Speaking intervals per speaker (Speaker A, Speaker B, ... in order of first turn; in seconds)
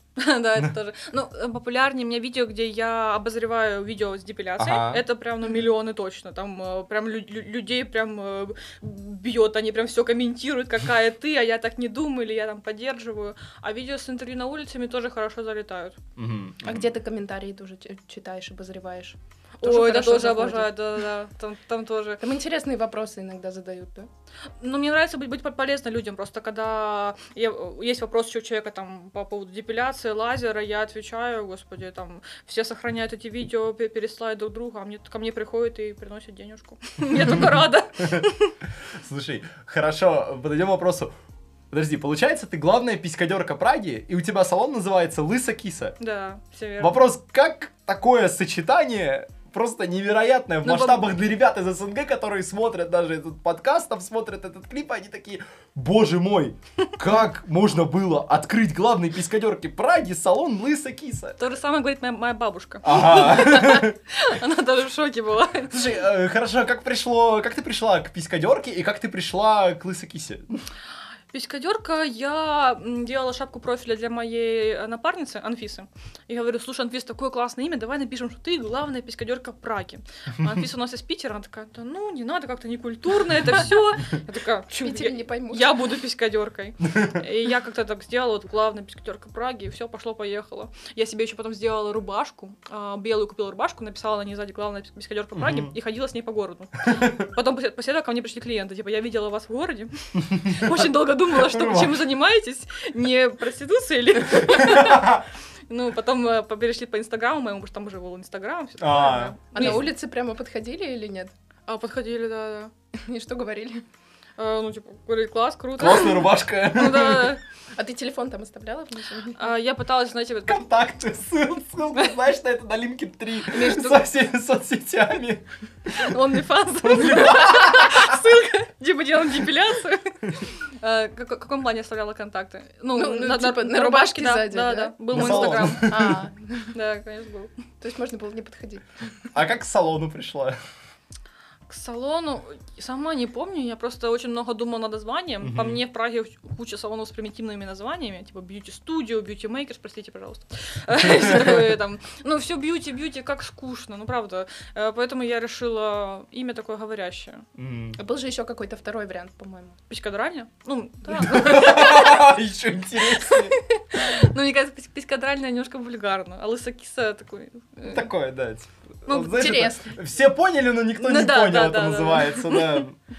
Speaker A: 0.2-16.0, 19.6-22.2, 24.6-38.5, 46.0-47.0, 50.6-51.1, 61.4-65.8, 71.3-109.8, 111.7-112.7, 114.4-117.4, 119.4-120.6, 123.5-124.0, 125.9-136.1, 136.7-137.5, 141.7-157.4, 159.9-162.2, 163.1-168.1, 169.1-169.4, 171.0-172.8
Speaker B: 4.6-5.0, 16.2-16.9, 37.1-38.2, 38.9-41.1, 41.7-46.0, 46.8-61.4, 62.8-64.0, 65.7-70.6, 95.3-95.7, 96.8-97.3, 100.2-102.1, 104.3-105.2, 108.8-109.8, 115.8-117.4, 120.5-126.2, 126.8-128.2, 135.1-136.2, 139.3-140.6, 145.4-145.8, 151.2-151.7, 157.6-158.0, 161.1-163.6, 167.9-173.0
Speaker C: 16.6-20.9, 22.2-24.1, 84.8-85.9, 109.5-111.3, 113.0-113.8, 117.8-119.5, 132.9-136.7, 137.8-138.9, 158.0-159.8, 169.1-169.9